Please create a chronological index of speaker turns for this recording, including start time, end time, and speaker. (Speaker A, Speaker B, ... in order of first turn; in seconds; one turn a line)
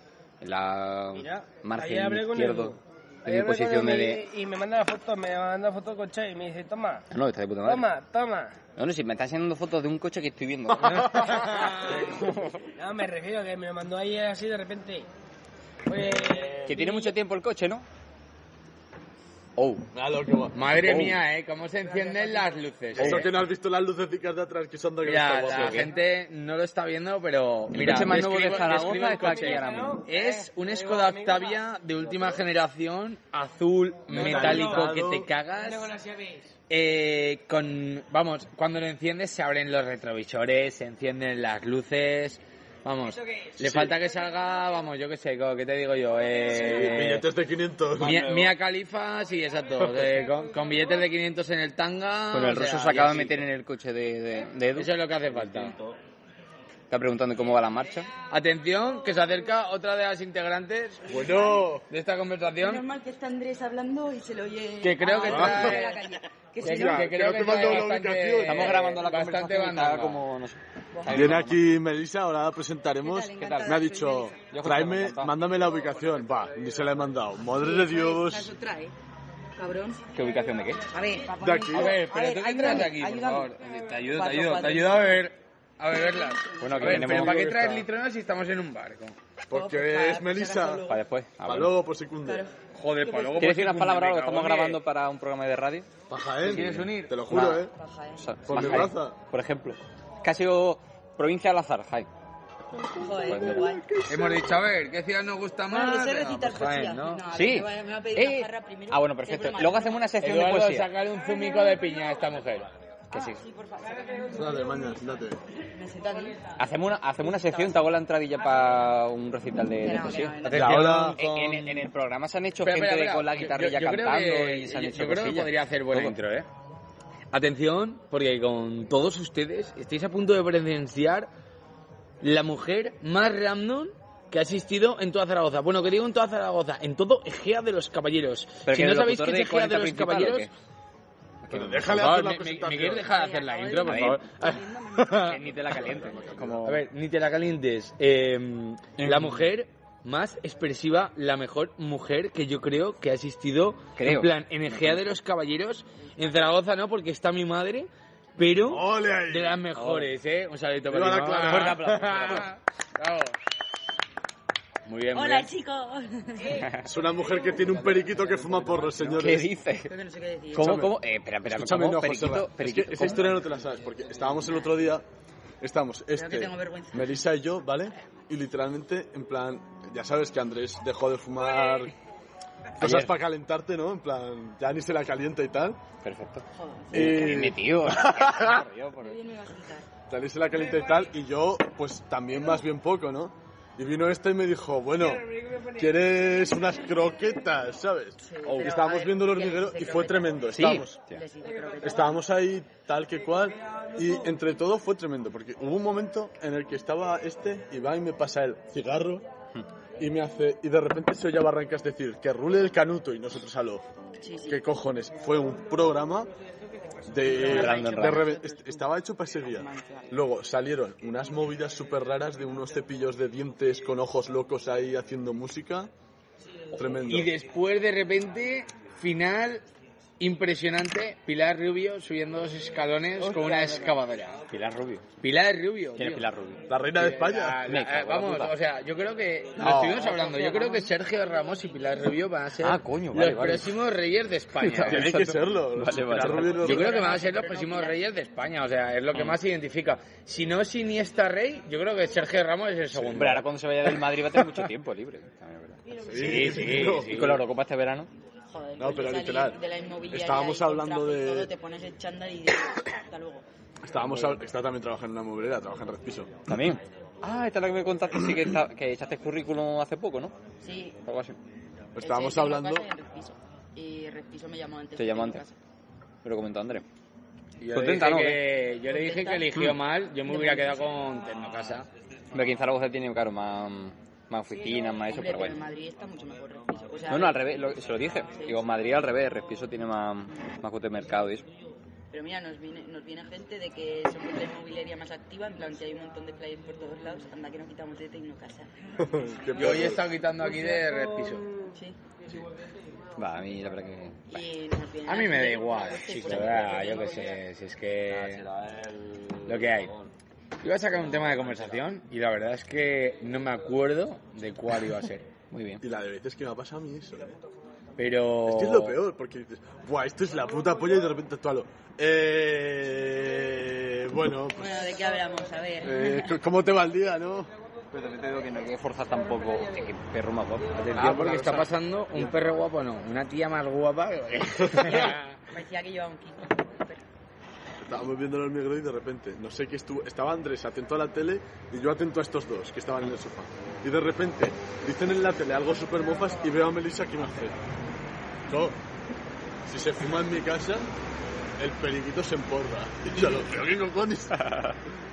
Speaker A: 0.4-4.3
Speaker B: 1.1-7.0
Speaker A: 7.1-7.9
Speaker B: 7.6-8.6
Speaker A: 8.8-12.5
Speaker B: 11.3-15.1
Speaker C: 11.3-11.6
Speaker B: 15.8-17.1
Speaker A: 16.6-17.9
Speaker A: 19.6-19.9
Speaker D: 19.9-20.9
Speaker C: 20.5-23.3
Speaker A: 20.8-21.2
Speaker B: 21.9-22.6
Speaker D: 22.9-25.9
Speaker A: 23.0-23.2
Speaker C: 25.0-35.9
Speaker A: 25.4-25.9
Speaker A: 27.7-30.0
Speaker B: 28.6-31.6
Speaker D: 34.1-35.3
Speaker B: 34.1-35.0
Speaker B: 35.6-36.5
Speaker C: 36.7-47.2
Speaker D: 43.6-43.9
Speaker D: 46.5-48.4
Speaker C: 48.0-53.5
Speaker A: 52.3-55.8
Speaker C: 54.7-55.8
Speaker A: 56.9-58.1
Speaker C: 58.3-61.3
Speaker D: 61.1-61.9
Speaker E: 61.3-61.6
Speaker C: 61.9-62.8
Speaker E: 62.6-67.9
Speaker C: 64.8-66.0
Speaker D: 65.2-65.8
Speaker D: 66.6-68.8
Speaker C: 66.6-70.2
Speaker A: 68.4-71.7
Speaker E: 70.9-71.4
Speaker D: 71.1-78.5
Speaker E: 73.0-74.4
Speaker A: 73.4-73.7
Speaker A: 74.5-75.4
Speaker E: 77.4-78.9
Speaker E: 79.5-80.1
Speaker A: 80.1-80.9
Speaker E: 80.9-85.2
Speaker D: 81.4-82.0
Speaker C: 81.7-89.2
Speaker E: 85.9-86.9
Speaker A: 86.6-87.7
Speaker D: 86.8-87.9
Speaker D: 89.5-90.8
Speaker E: 89.5-91.0
Speaker A: 90.9-91.8
Speaker D: 91.4-92.4
Speaker E: 92.2-93.4
Speaker C: 92.7-94.8
Speaker A: 93.3-95.9
Speaker D: 96.1-97.7
Speaker C: 96.4-97.2
Speaker A: 96.4-97.6
Speaker E: 97.6-98.2
Speaker A: 98.2-102.1
Speaker D: 98.5-99.2
Speaker E: 102.9-104.1
Speaker A: 103.0-103.8
Speaker D: 103.5-104.4
Speaker C: 104.1-107.2
Speaker E: 105.7-110.1
Speaker A: 107.3-110.9
Speaker C: 110.2-112.7
Speaker E: 111.3-111.8
Speaker A: 113.1-113.4
Speaker E: 113.1-115.0
Speaker D: 114.3-115.4
Speaker E: 115.7-116.5
Speaker A: 116.5-126.2
Speaker E: 117.2-117.8
Speaker E: 119.8-121.0
Speaker C: 120.4-121.8
Speaker D: 120.5-121.6
Speaker C: 122.6-126.5
Speaker C: 127.3-131.3
Speaker C: 132.2-140.5
Speaker A: 138.6-140.5
Speaker A: 141.4-141.9
Speaker D: 141.5-143.1
Speaker C: 141.8-145.4
Speaker E: 143.0-146.3
Speaker A: 143.8-144.2
Speaker A: 145.2-146.8
Speaker D: 145.7-146.7
Speaker C: 146.6-163.4
Speaker A: 149.0-149.5
Speaker A: 154.0-154.8
Speaker D: 158.6-159.6
Speaker A: 159.7-160.1
Speaker D: 160.9-162.1
Speaker A: 161.4-162.5
Speaker C: 164.8-165.5
Speaker E: 165.1-166.7
Speaker A: 166.6-166.9
Speaker D: 166.8-169.5
Speaker C: 167.4-169.3
Speaker A: 169.1-169.9
Speaker E: 169.8-170.9
Speaker A: 170.5-173.4
Speaker D: 170.6-175.0
Speaker D: 175.6-181.9
Speaker E: 176.1-177.2
Speaker D: 182.8-185.8
Speaker A: 182.8-183.1
Speaker A: 186.0-189.2
Speaker E: 186.5-187.5
Speaker D: 186.9-188.4
Speaker E: 188.4-189.9
Speaker D: 190.1-201.0
Speaker E: 198.2-202.2
Speaker A: 200.5-201.2
Speaker D: 201.8-209.2
Speaker D: 210.0-213.8
Speaker E: 214.2-214.6
Speaker D: 214.5-216.3
Speaker D: 217.1-225.9
Speaker E: 217.2-220.2
Speaker A: 217.4-218.3
Speaker D: 226.7-227.3
Speaker C: 227.0-229.6
Speaker C: 230.2-234.4
Speaker A: 233.2-234.0
Speaker A: 234.5-235.1
Speaker C: 235.2-236.3
Speaker A: 236.0-236.7
Speaker D: 236.7-237.7
Speaker C: 236.9-245.2
Speaker A: 237.7-238.5
Speaker D: 239.6-240.2
Speaker E: 240.3-240.8
Speaker A: 242.6-243.7
Speaker A: 244.6-246.8
Speaker D: 244.8-247.0
Speaker E: 246.4-248.0
Speaker C: 246.5-253.4
Speaker A: 249.1-249.4
Speaker A: 252.9-255.8
Speaker D: 256.0-257.4
Speaker C: 256.1-257.4
Speaker A: 256.3-258.1
Speaker E: 258.5-263.4
Speaker D: 258.8-259.6
Speaker D: 260.1-261.5
Speaker D: 263.8-266.5
Speaker A: 264.0-264.4
Speaker A: 266.5-270.4
Speaker E: 270.6-271.0
Speaker A: 271.0-271.4
Speaker D: 271.9-272.9
Speaker E: 272.0-275.6
Speaker A: 275.0-275.4
Speaker A: 276.2-276.9
Speaker C: 277.6-281.9
Speaker A: 277.7-278.4
Speaker E: 278.8-279.6
Speaker E: 280.2-280.9
Speaker A: 282.3-285.6
Speaker E: 285.0-287.7
Speaker A: 287.1-291.5
Speaker E: 288.3-288.8
Speaker E: 292.1-299.2
Speaker D: 299.0-300.1
Speaker C: 299.5-301.5
Speaker B: 300.6-300.9
Speaker E: 301.7-302.0
Speaker A: 303.1-304.4
Speaker E: 304.3-307.4
Speaker C: 305.1-308.4
Speaker A: 306.2-306.8
Speaker A: 308.1-310.1
Speaker C: 309.5-309.9
Speaker C: 310.6-315.3
Speaker A: 311.0-311.8
Speaker A: 315.5-315.8
Speaker D: 315.8-317.4
Speaker C: 318.0-319.0
Speaker D: 318.4-325.0
Speaker E: 324.6-326.4
Speaker D: 325.8-327.5
Speaker A: 327.9-331.6
Speaker B: 329.3-329.6
Speaker D: 330.8-332.3
Speaker C: 330.9-335.4
Speaker E: 334.8-337.0
Speaker D: 337.8-347.5
Speaker D: 348.5-348.8
Speaker D: 349.6-350.9
Speaker D: 351.6-354.4
Speaker A: 354.3-354.8